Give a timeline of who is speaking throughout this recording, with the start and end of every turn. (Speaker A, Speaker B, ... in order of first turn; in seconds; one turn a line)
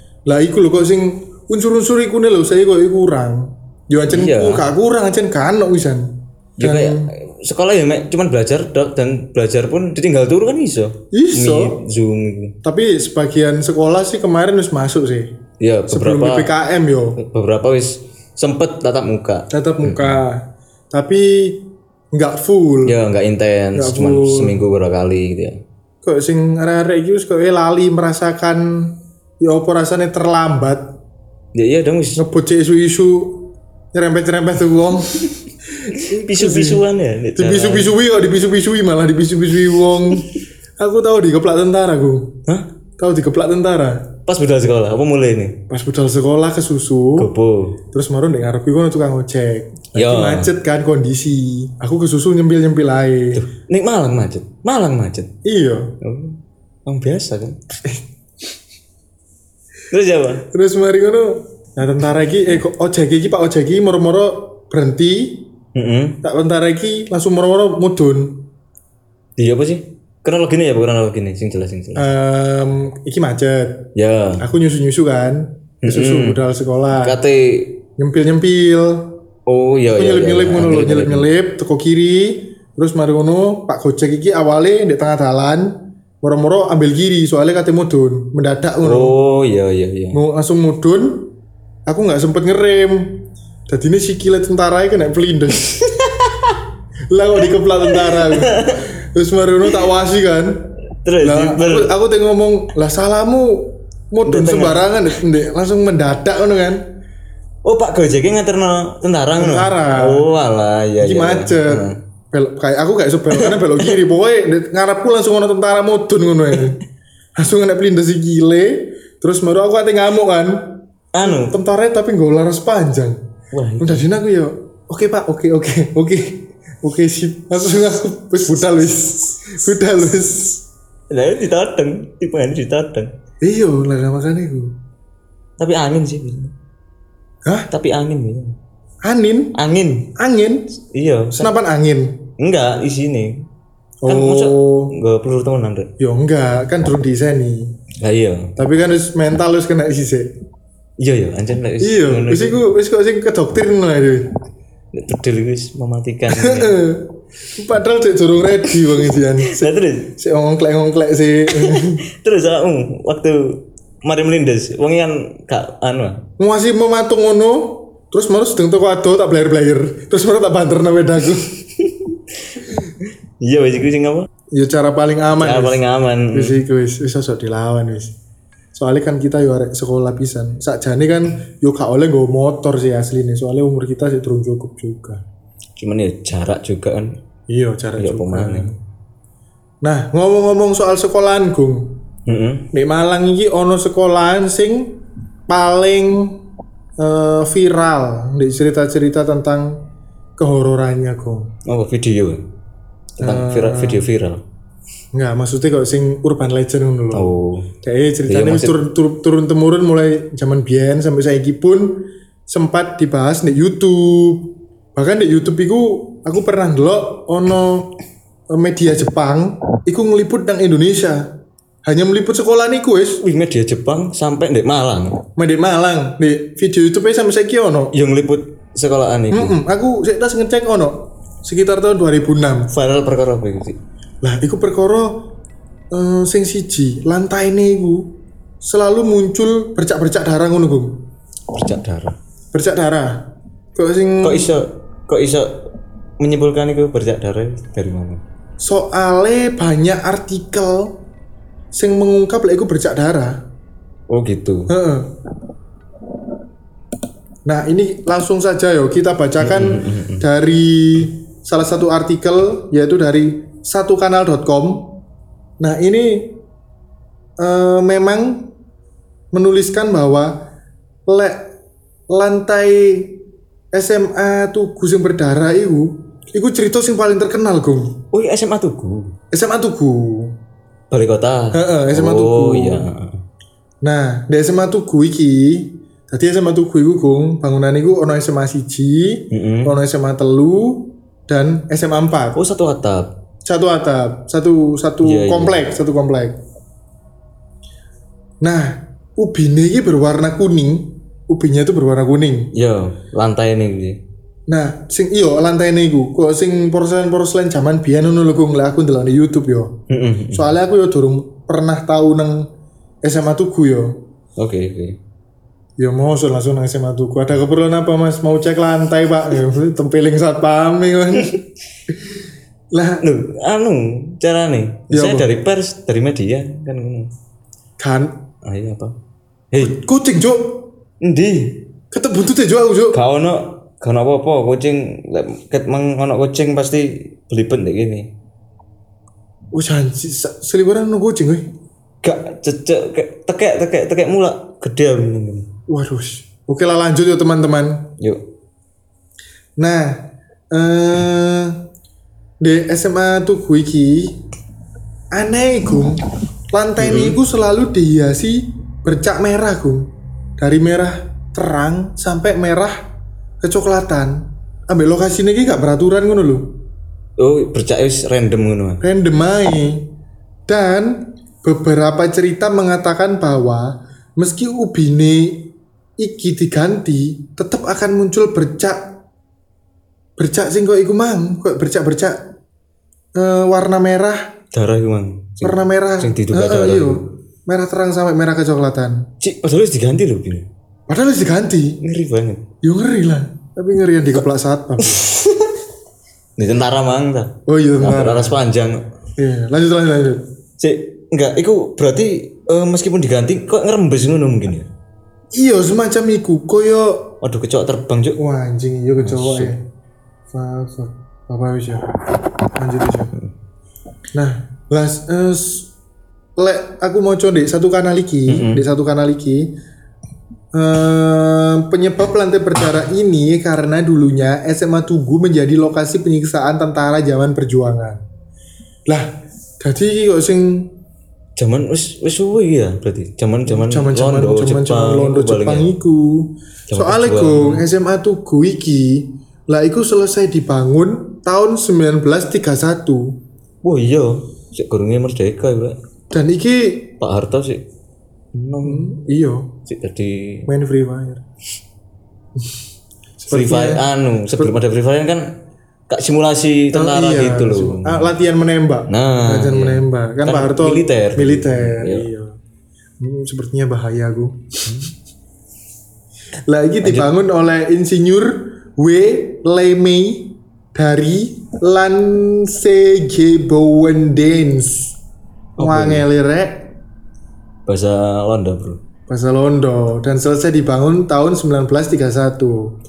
Speaker A: 0.3-7.1
Speaker B: 4.1-4.7
Speaker B: 6.6-12.6
Speaker A: 11.1-11.8
Speaker A: 12.6-15.4
Speaker B: 15.6-16.5
Speaker A: 15.9-17.2
Speaker B: 17.2-20.2
Speaker A: 19.5-23.0
Speaker B: 22.9-25.6
Speaker A: 23.8-24.6
Speaker A: 26.0-30.9
Speaker B: 31.6-32.2
Speaker A: 32.2-36.8
Speaker B: 35.9-38.0
Speaker A: 37.4-42.4
Speaker A: 43.0-44.1
Speaker B: 44.3-45.6
Speaker A: 45.7-47.3
Speaker B: 47.2-47.8
Speaker A: 47.9-53.4
Speaker B: 49.9-50.5
Speaker B: 53.3-55.3
Speaker A: 55.5-56.0
Speaker B: 56.0-57.6
Speaker B: 59.9-60.5
Speaker A: 60.5-65.5
Speaker B: 65.8-66.2
Speaker A: 66.2-68.4
Speaker B: 69.4-72.1
Speaker A: 72.0-77.2
Speaker B: 74.0-74.5
Speaker B: 75.8-76.4
Speaker B: 77.0-77.8
Speaker A: 78.0-79.2
Speaker B: 79.5-81.3
Speaker A: 80.0-89.2
Speaker B: 88.8-90.2
Speaker A: 90.1-91.3
Speaker A: 91.9-95.8
Speaker B: 95.7-96.6
Speaker A: 97.1-100.7
Speaker B: 97.8-98.8
Speaker B: 101.0-101.9
Speaker A: 101.2-106.9
Speaker B: 104.2-105.2
Speaker B: 107.7-112.0
Speaker A: 109.4-110.3
Speaker A: 111.0-116.8
Speaker B: 113.3-114.0
Speaker A: 117.4-123.2
Speaker B: 121.1-121.5
Speaker B: 123.5-124.1
Speaker A: 123.8-130.6
Speaker B: 131.1-133.1
Speaker A: 133.4-134.8
Speaker B: 135.6-136.5
Speaker B: 137.7-138.6
Speaker A: 139.0-139.6
Speaker B: 139.6-140.1
Speaker A: 140.1-140.7
Speaker B: 140.9-141.5
Speaker A: 141.3-142.3
Speaker B: 142.4-143.5
Speaker A: 144.0-144.9
Speaker B: 144.1-145.9
Speaker A: 146.0-147.7
Speaker B: 148.0-148.6
Speaker A: 148.6-150.3
Speaker B: 151.0-152.6
Speaker A: 151.8-154.3
Speaker B: 154.9-156.8
Speaker A: 156.3-162.0
Speaker B: 159.1-160.2
Speaker B: 161.5-166.2
Speaker A: 166.4-171.5
Speaker B: 171.8-174.3
Speaker A: 174.5-178.2
Speaker B: 175.4-176.6
Speaker A: 178.7-185.2
Speaker B: 185.8-187.2
Speaker A: 187.5-188.8
Speaker B: 188.0-188.7
Speaker A: 189.8-192.0
Speaker B: 192.3-192.7
Speaker A: 192.7-196.4
Speaker A: 197.0-199.8
Speaker A: 200.4-201.5
Speaker B: 201.7-202.4
Speaker B: 203.2-204.4
Speaker A: 203.2-204.1
Speaker A: 205.1-217.9
Speaker B: 207.1-207.7
Speaker B: 208.3-208.8
Speaker A: 218.5-221.3
Speaker A: 221.8-223.2
Speaker B: 223.2-225.2
Speaker A: 225.4-227.9
Speaker B: 227.9-229.6
Speaker A: 229.3-232.7
Speaker B: 232.7-233.8
Speaker A: 234.2-235.2
Speaker A: 235.9-238.1
Speaker A: 238.6-241.0
Speaker B: 241.5-242.2
Speaker A: 242.5-244.5
Speaker B: 244.2-245.6
Speaker B: 246.2-248.2
Speaker A: 248.6-251.0
Speaker A: 251.7-253.4
Speaker B: 254.1-254.7
Speaker A: 254.7-255.1
Speaker A: 257.4-265.0
Speaker B: 259.4-260.2
Speaker A: 265.6-266.4
Speaker A: 267.4-268.5
Speaker A: 269.3-270.5
Speaker A: 271.1-271.5
Speaker A: 272.1-273.2
Speaker A: 273.7-278.0
Speaker B: 278.1-279.1
Speaker A: 279.3-280.4
Speaker B: 280.9-283.2
Speaker A: 281.5-282.9
Speaker A: 283.8-292.4
Speaker B: 289.3-289.8
Speaker B: 292.3-293.1
Speaker A: 293.4-296.4
Speaker B: 295.0-295.6
Speaker A: 298.4-302.5
Speaker B: 302.5-304.0
Speaker A: 304.5-309.8
Speaker B: 309.9-310.5
Speaker A: 310.3-312.4
Speaker A: 313.0-314.0
Speaker B: 314.4-315.0
Speaker A: 315.8-321.4
Speaker A: 321.9-322.1
Speaker A: 322.7-323.1
Speaker B: 323.0-327.1
Speaker A: 324.9-325.3
Speaker A: 327.8-328.2
Speaker B: 328.4-328.9
Speaker B: 329.5-329.8
Speaker A: 329.6-330.7
Speaker B: 331.0-331.6
Speaker A: 331.9-333.0
Speaker B: 332.9-338.1
Speaker A: 339.5-341.5
Speaker B: 342.0-345.5
Speaker A: 345.7-347.9
Speaker A: 349.6-351.6
Speaker A: 352.4-354.2
Speaker A: 355.1-362.8
Speaker B: 356.8-357.2
Speaker A: 363.4-366.6
Speaker B: 367.2-368.8
Speaker A: 368.8-369.9
Speaker A: 370.5-378.9
Speaker A: 380.2-382.2
Speaker A: 383.1-384.3
Speaker B: 384.5-387.1
Speaker A: 385.4-389.1
Speaker B: 389.2-390.5
Speaker A: 390.9-391.8
Speaker B: 391.8-392.4
Speaker A: 392.6-395.2
Speaker B: 396.4-398.8
Speaker A: 397.5-398.4
Speaker A: 399.2-400.2
Speaker B: 400.6-404.7
Speaker A: 405.3-407.2
Speaker B: 407.2-408.2
Speaker A: 408.2-409.6
Speaker B: 409.0-409.5
Speaker A: 410.3-412.0
Speaker A: 412.6-413.1
Speaker A: 414.1-415.7
Speaker A: 416.4-419.5
Speaker B: 418.3-418.6
Speaker A: 420.5-428.0
Speaker A: 428.9-430.7
Speaker B: 431.4-435.7
Speaker A: 433.5-443.2
Speaker B: 436.7-437.6
Speaker B: 443.6-445.8
Speaker A: 446.1-446.9
Speaker B: 447.0-447.6
Speaker B: 448.3-449.0
Speaker A: 448.6-449.6
Speaker B: 449.7-450.5
Speaker A: 450.5-451.2
Speaker A: 453.2-453.9
Speaker B: 453.3-455.3
Speaker B: 455.9-458.1
Speaker A: 456.7-462.4
Speaker B: 458.9-462.1
Speaker A: 463.0-464.8
Speaker B: 464.7-464.9
Speaker A: 466.5-475.0
Speaker B: 466.8-467.1
Speaker B: 475.6-476.1
Speaker A: 475.6-476.7
Speaker B: 477.7-478.8
Speaker A: 479.1-482.8